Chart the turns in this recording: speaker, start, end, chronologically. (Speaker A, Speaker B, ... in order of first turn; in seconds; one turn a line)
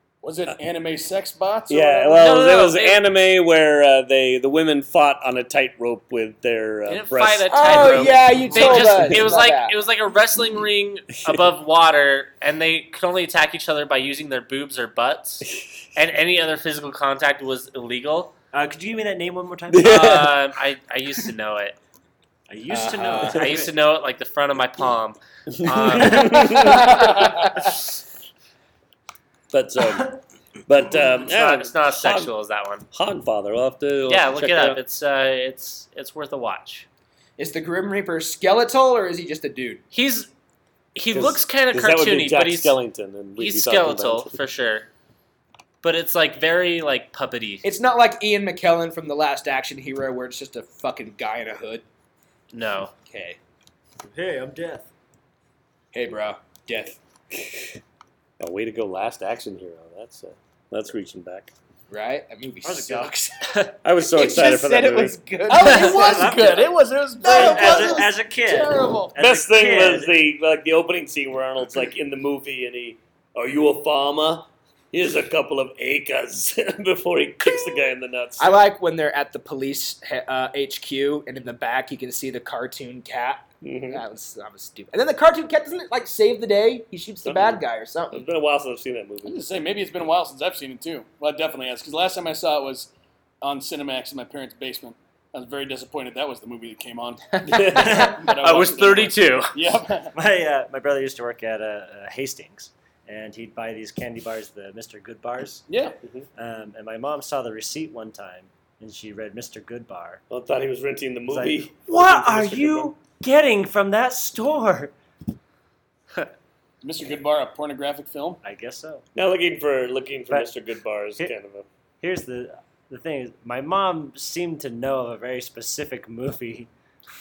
Speaker A: 0.2-2.2
Speaker B: 1.7-9.2
Speaker C: 2.1-3.0
Speaker C: 6.9-18.3
Speaker D: 7.5-9.7
Speaker E: 18.5-20.2
Speaker B: 19.7-20.4
Speaker C: 19.8-21.8
Speaker E: 22.5-23.7
Speaker D: 22.7-23.4
Speaker C: 23.2-26.8
Speaker B: 25.6-27.3
Speaker D: 26.4-27.5
Speaker B: 29.5-32.3
Speaker C: 31.2-32.8
Speaker B: 32.9-34.8
Speaker C: 34.0-36.9
Speaker D: 37.4-39.8
Speaker C: 39.9-40.3
Speaker C: 40.9-42.8
Speaker B: 41.1-44.3
Speaker C: 43.4-44.9
Speaker C: 45.8-47.6
Speaker D: 47.6-51.8
Speaker C: 52.5-52.9
Speaker D: 53.0-53.4
Speaker E: 54.0-54.9
Speaker D: 55.9-57.0
Speaker B: 57.4-57.7
Speaker B: 58.4-61.5
Speaker D: 61.9-63.3
Speaker E: 62.6-63.1
Speaker B: 63.8-65.2
Speaker D: 64.1-66.4
Speaker A: 65.5-69.1
Speaker E: 65.7-70.2
Speaker D: 67.2-69.1
Speaker B: 69.2-78.6
Speaker D: 77.4-77.8
Speaker D: 78.4-88.2
Speaker B: 83.6-84.0
Speaker B: 87.2-89.4
Speaker A: 89.2-92.9
Speaker A: 93.4-100.1
Speaker B: 97.4-98.1
Speaker C: 97.8-99.5
Speaker E: 100.1-105.7
Speaker A: 105.7-105.9
Speaker E: 106.3-110.2
Speaker B: 110.3-112.9
Speaker E: 111.3-114.9
Speaker A: 116.8-118.4
Speaker E: 118.4-119.0
Speaker B: 119.1-121.7
Speaker E: 122.0-126.7